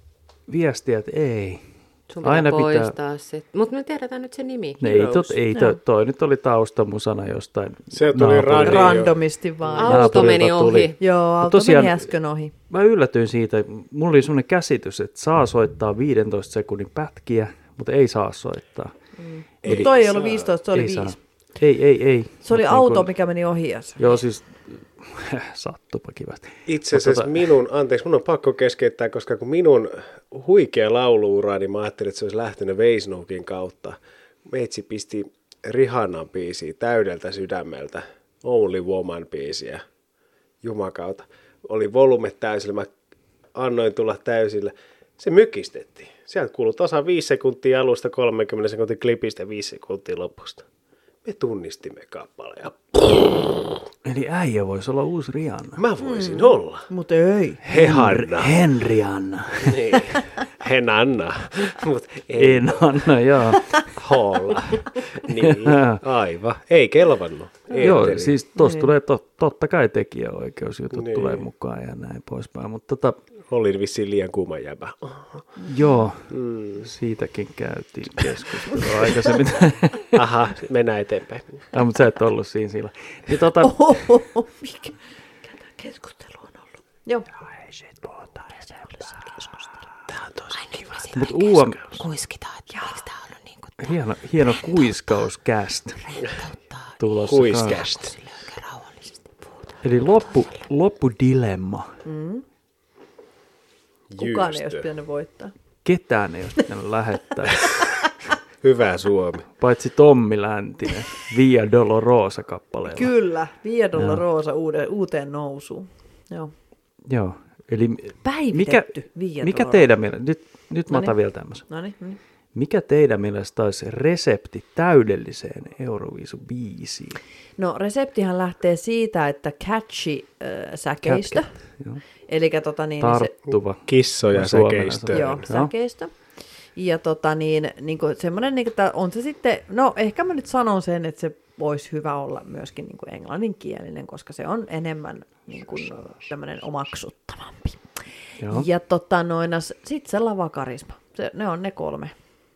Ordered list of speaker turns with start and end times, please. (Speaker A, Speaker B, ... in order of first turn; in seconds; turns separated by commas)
Speaker A: 0.5-1.6, Speaker B: 2.1-5.3, Speaker A: 2.2-2.9, Speaker A: 4.8-9.1, Speaker C: 4.9-5.8, Speaker D: 7.9-9.8, Speaker C: 8.6-10.4, Speaker B: 9.8-11.0, Speaker A: 9.8-12.1, Speaker C: 11.0-12.5, Speaker A: 12.7-18.9, Speaker C: 19.2-21.2, Speaker D: 19.6-20.5, Speaker A: 19.6-19.9, Speaker A: 20.7-23.1, Speaker C: 22.4-24.0, Speaker A: 24.0-27.4, Speaker D: 26.7-39.8, Speaker D: 40.6-42.9, Speaker D: 43.5-50.6, Speaker D: 51.2-53.8, Speaker A: 54.0-55.8, Speaker D: 55.8-56.9, Speaker C: 56.0-57.6, Speaker D: 57.6-58.6, Speaker A: 57.7-60.0, Speaker D: 59.6-63.1, Speaker A: 62.3-63.9, Speaker D: 63.9-68.4, Speaker A: 65.3-66.0, Speaker A: 67.8-73.2, Speaker C: 68.5-68.9, Speaker D: 70.9-71.5, Speaker D: 73.5-75.5, Speaker C: 75.6-76.0, Speaker A: 75.7-80.1, Speaker D: 76.3-76.9, Speaker D: 80.1-81.6, Speaker A: 81.7-83.9, Speaker C: 83.6-85.0, Speaker C: 85.6-87.3, Speaker A: 87.7-88.5, Speaker C: 88.8-89.7, Speaker D: 90.1-91.1, Speaker B: 90.5-95.3, Speaker A: 91.1-92.0, Speaker C: 92.7-93.0, Speaker A: 93.8-96.2, Speaker B: 96.0-100.6, Speaker A: 97.0-97.8, Speaker D: 97.2-98.1, Speaker A: 99.8-101.9, Speaker C: 102.0-102.4, Speaker D: 104.1-104.9, Speaker C: 104.2-105.5, Speaker A: 105.8-107.8, Speaker D: 108.6-109.5, Speaker A: 109.6-113.1, Speaker C: 112.8-116.5, Speaker A: 114.0-114.2, Speaker A: 117.0-121.7, Speaker C: 118.2-119.9, Speaker C: 120.9-122.2, Speaker A: 122.5-127.2, Speaker C: 127.6-131.6, Speaker A: 131.0-132.0, Speaker C: 132.3-133.3, Speaker A: 133.0-135.7, Speaker D: 133.5-135.4, Speaker C: 135.1-136.1, Speaker C: 136.7-152.1, Speaker A: 148.4-148.7